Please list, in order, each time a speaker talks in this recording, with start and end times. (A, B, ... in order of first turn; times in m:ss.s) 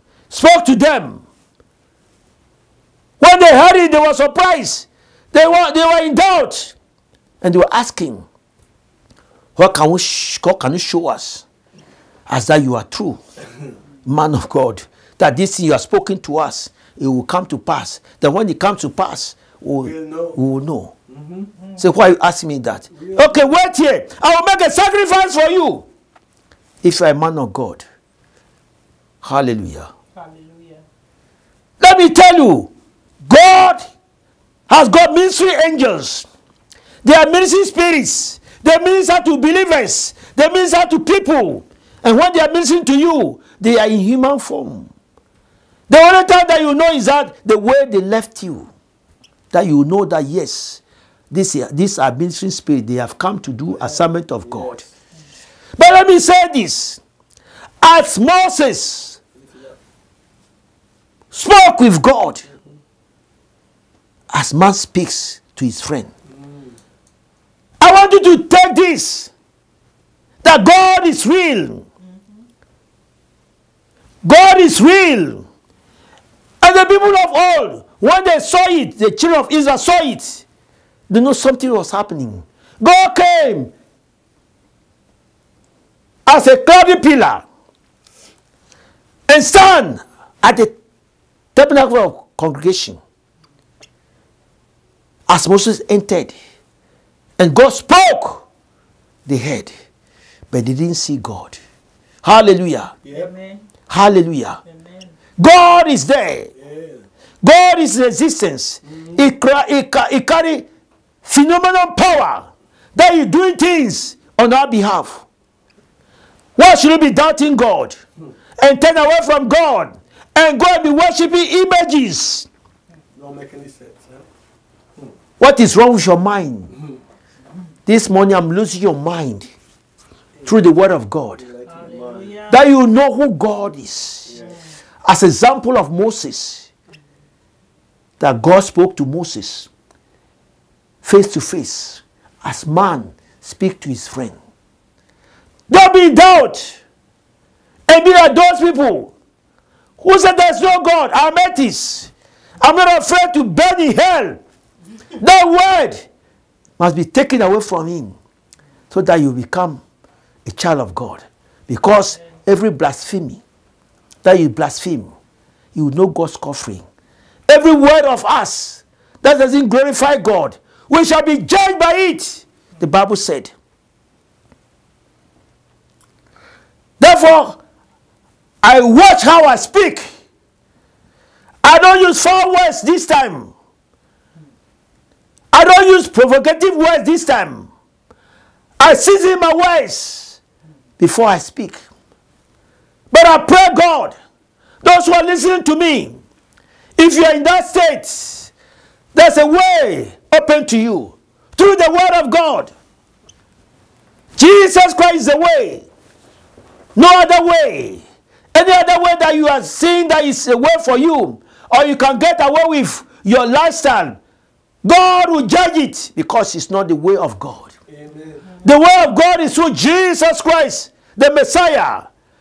0:00.3-0:01.2 A
0:03.2-0:06.7 A
0:07.4-0:08.2 A
0:09.6-0:11.4 A
0:12.3-0:13.2 A
0:14.0-0:20.9 A
0:19.8-0:20.4 B
0:21.1-0:21.5 B
0:21.8-0:25.8 A
0:22.9-0:23.6 B
0:26.8-0:27.8 A
0:29.2-0:29.9 A
0:30.1-0:30.8 C
0:31.8-0:32.7 A
0:33.2-0:33.8 A
0:34.7-0:36.3 A
0:37.0-0:44.9 A
0:45.9-0:48.7 A
0:49.5-0:54.8 A
0:53.7-0:54.8 B
0:55.8-0:57.0 A
0:57.8-0:59.2 A
0:59.4-0:59.8 B
1:01.3-1:02.4 A
1:04.3-1:06.1 A
1:06.3-1:06.8 B
1:07.8-1:09.3 A
1:10.4-1:11.8 A
1:14.2-1:15.4 A
1:16.6-1:20.4 A
1:21.1-1:23.7 A
1:26.2-1:27.4 A
1:29.3-1:30.8 A
1:31.5-1:33.0 A
1:35.3-1:36.3 A
1:37.4-1:38.4 A
1:39.2-1:39.7 A
1:40.5-1:41.6 A
1:42.2-1:42.9 A
1:43.0-1:43.3 B
1:43.1-1:43.7 C
1:43.9-1:44.6 A
1:44.7-1:45.1 C
1:45.4-1:46.5 A
1:46.5-1:47.0 B
1:47.4-1:50.7 A
1:51.2-1:55.2 A
1:56.6-1:58.0 A
1:58.6-2:02.5 A
2:03.1-2:04.3 B
2:05.4-2:06.7 A
2:07.9-2:09.5 A
2:10.4-2:10.7 B
2:10.4-2:11.4 A
2:11.3-2:12.4 B
2:11.7-2:12.6 C
2:12.5-2:14.3 A
2:14.2-2:14.6 B
2:15.0-2:16.7 A
2:18.2-2:19.7 A
2:21.0-2:24.4 A
2:25.7-2:26.8 A
2:27.9-2:29.1 A
2:30.0-2:34.4 A
2:35.2-2:36.1 A
2:36.8-2:38.2 A
2:38.9-2:39.8 A
2:40.4-2:43.4 A
2:44.2-2:45.1 A
2:45.7-2:46.8 A
2:47.5-2:53.5 A
2:57.0-2:57.6 A
2:58.6-3:00.1 A
3:01.6-3:03.5 A
3:05.5-3:07.7 A
3:08.8-3:10.4 A
3:11.0-3:11.8 A
3:13.1-3:14.1 A
3:14.8-3:16.2 A
3:17.0-3:18.5 A
3:19.1-3:22.7 A
3:24.4-3:25.9 A
3:26.9-3:28.0 A
3:28.5-3:34.2 A
3:34.8-3:37.7 A
3:37.9-3:38.5 B
3:38.6-3:42.1 A